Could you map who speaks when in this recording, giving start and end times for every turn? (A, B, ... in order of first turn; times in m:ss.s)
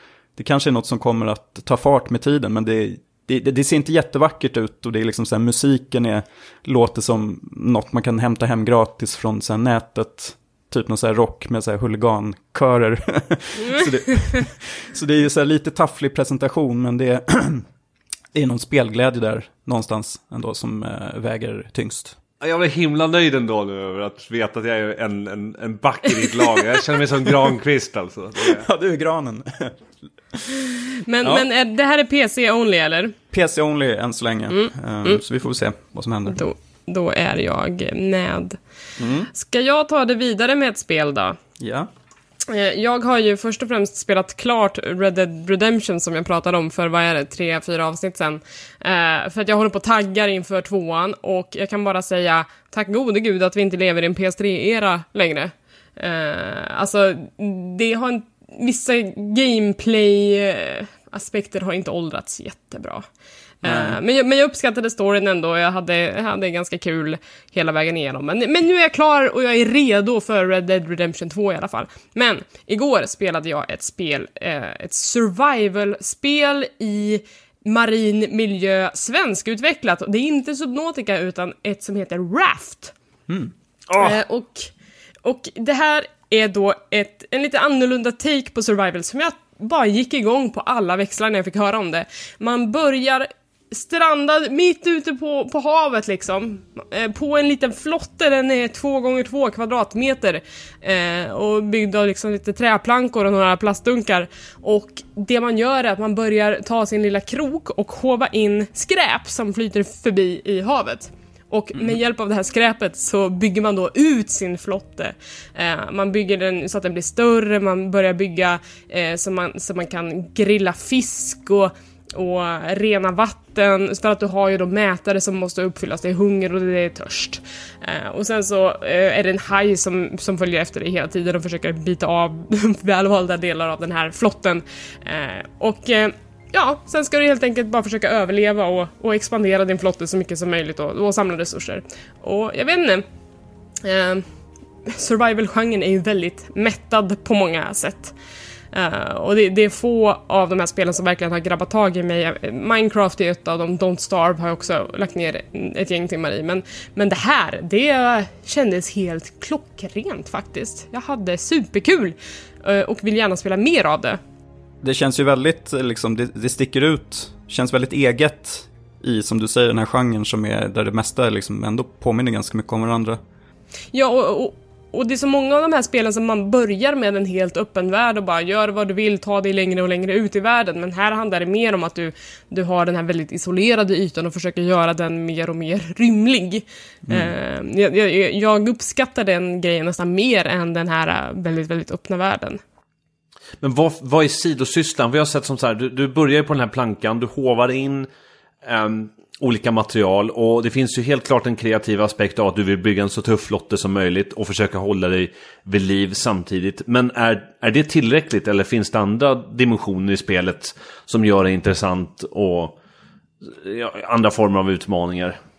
0:00.4-0:17.7 A
0:13.6-0:14.4 B
0:18.3-0:22.2 A
0:22.4-0:28.7 C
0:28.4-0:29.8 A
0:31.0-0:33.1 B
0:31.2-0:31.5 A
0:33.3-0:36.4 A
0:34.5-0:35.2 B
0:36.3-0:38.6 B
0:39.0-0:39.3 A
0:39.3-0:41.4 B
0:41.6-0:41.9 A
0:42.5-1:03.0 B
1:03.6-1:22.9 B
1:03.6-1:04.0 A
1:23.9-1:24.1 C
1:24.0-1:24.7 B
1:25.2-2:23.0 B
2:23.8-2:24.2 B
2:24.9-2:28.1 B
2:28.7-2:44.2 B
2:44.8-2:53.2 A
2:53.9-3:12.6 B
3:07.1-3:07.3 A
3:13.6-3:18.1 C
3:18.6-3:32.8 C
3:33.4-3:35.4 C